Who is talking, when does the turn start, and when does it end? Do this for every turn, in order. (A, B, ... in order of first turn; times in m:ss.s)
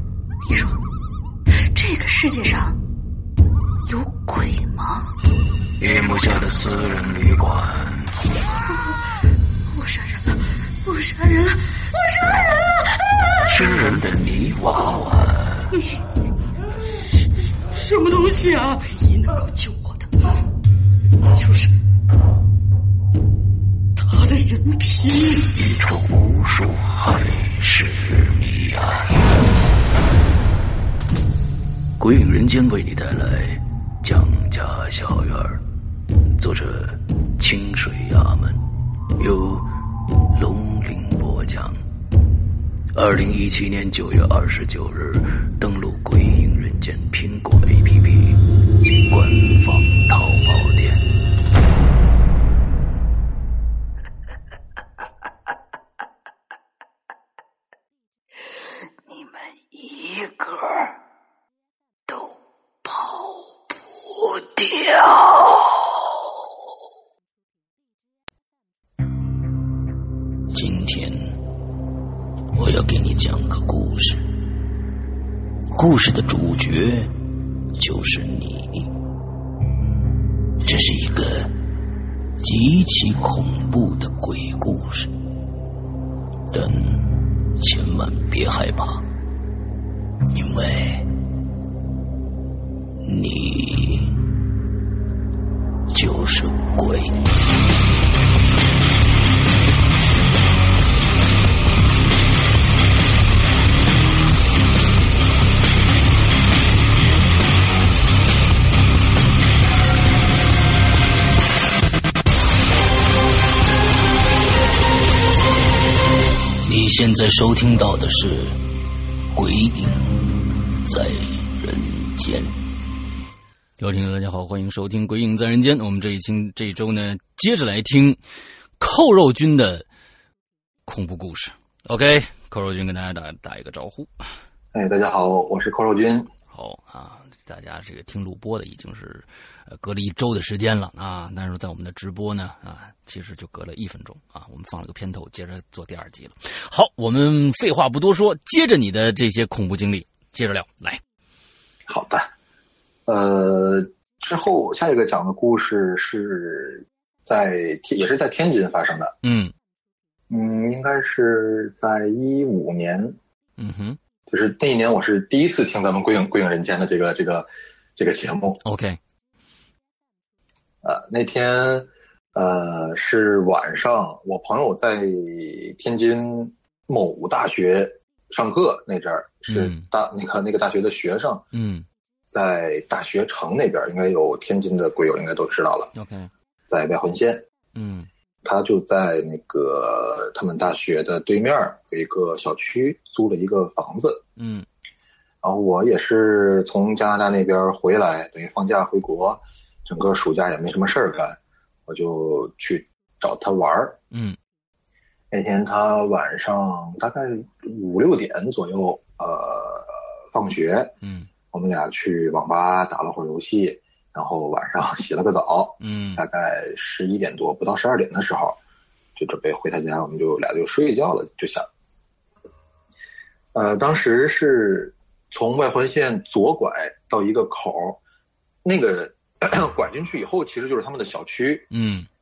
0:00.4-0:00.8 A
0:01.7-0:02.8 A
0:03.8-0:05.1 A
0:05.8-0:08.3 B
0:08.6-0:09.0 A
0:09.6-0:12.6 A
0:13.5-0:15.6 B
0:15.7-0:16.0 A
0:17.7-0:20.1 A
0:21.3-0:21.7 A
0:24.0-0:25.6 A
0:25.6-0:29.0 B
0:32.0-0:35.6 B
0:36.4-0:38.6 B
0:39.2-0:39.6 B
0:40.3-0:41.7 B
0:42.9-0:51.0 B
1:10.5-1:11.4 B
1:12.5-1:14.2 B
1:15.7-1:17.1 B
1:17.8-1:18.9 B
1:20.6-1:21.5 B
1:22.4-1:25.1 B
1:26.5-1:29.0 B
1:30.3-1:31.0 B
1:33.0-1:34.2 B
1:35.9-1:37.1 B
1:56.6-1:58.6 B
1:59.3-2:02.6 B
2:03.8-2:08.2 B
2:08.8-2:09.9 B
2:10.8-2:14.1 B
2:14.7-2:16.3 C
2:16.5-2:31.0 B
2:31.9-2:32.3 C
2:33.1-2:39.1 C
2:39.2-2:39.5 B
2:40.3-2:43.2 C
2:43.6-2:44.0 B
2:44.3-2:48.6 C
2:48.6-2:49.0 B
2:50.8-3:01.4 C
2:59.5-2:59.9 B
3:01.5-3:01.9 B
3:02.3-3:05.9 C
3:05.9-3:06.3 B
3:06.7-3:07.4 C
3:07.7-3:08.1 B
3:08.4-3:14.2 C
3:14.4-3:14.7 B
3:15.4-3:24.0 C
3:24.1-3:24.4 B
3:25.3-3:30.9 C
3:31.0-3:31.3 B
3:31.5-3:38.6 C
3:35.8-3:36.2 B
3:39.2-3:41.7 C
3:43.5-3:48.0 C
3:48.6-3:51.7 C
3:51.7-3:52.1 B